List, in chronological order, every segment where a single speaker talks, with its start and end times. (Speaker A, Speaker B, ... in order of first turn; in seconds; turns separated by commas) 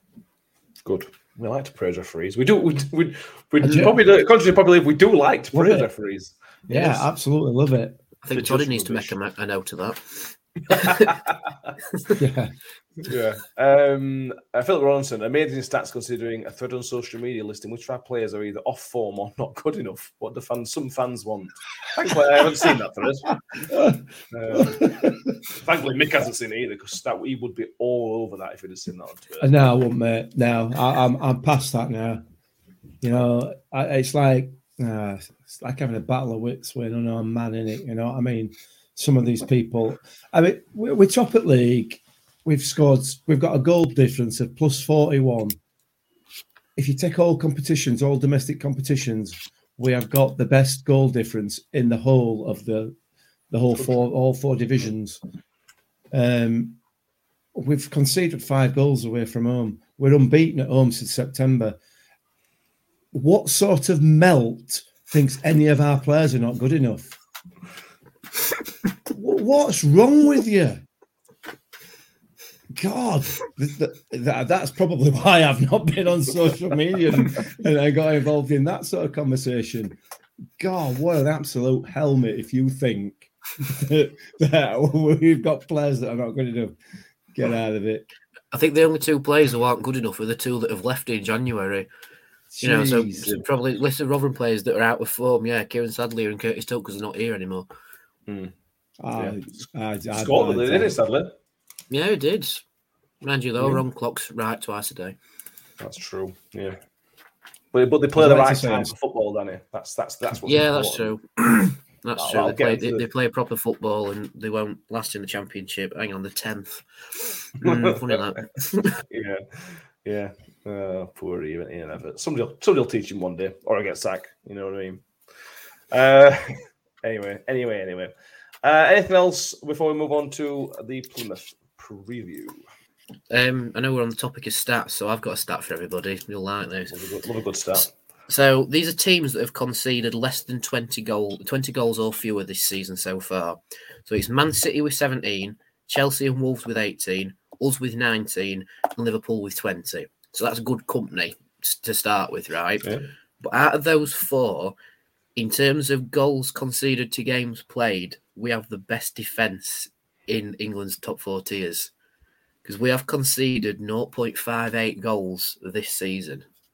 Speaker A: 0.8-7.1, Speaker B: 3.6-4.0, Speaker B: 5.5-5.9, Speaker B: 6.7-8.0, Speaker C: 8.2-11.1, Speaker A: 8.3-9.1, Speaker A: 10.7-11.4, Speaker B: 12.2-12.6, Speaker A: 13.1-23.3, Speaker B: 23.6-25.1, Speaker A: 24.3-29.6, Speaker B: 29.4-32.2, Speaker B: 33.0-45.6, Speaker B: 46.8-53.0, Speaker B: 53.5-55.2, Speaker B: 56.1-56.8, Speaker B: 57.5-61.8, Speaker B: 63.1-67.2, Speaker B: 69.1-70.8, Speaker B: 72.8-80.0, Speaker B: 80.6-86.8, Speaker B: 87.3-88.1, Speaker C: 88.5-91.9, Speaker B: 92.5-93.4, Speaker C: 92.6-97.7, Speaker A: 98.3-98.5, Speaker B: 99.0-100.9, Speaker A: 100.1-101.3, Speaker C: 101.9-102.6, Speaker C: 103.2-105.2, Speaker A: 105.8-106.8, Speaker A: 107.7-111.1, Speaker B: 108.2-108.9, Speaker C: 110.5-116.9, Speaker A: 112.2-113.0, Speaker C: 117.5-119.0, Speaker A: 117.6-118.2, Speaker A: 119.1-125.1, Speaker A: 125.9-128.1, Speaker A: 128.6-132.6, Speaker C: 133.3-137.0, Speaker A: 136.9-137.9, Speaker C: 138.3-154.8, Speaker C: 155.4-161.9, Speaker C: 162.7-166.4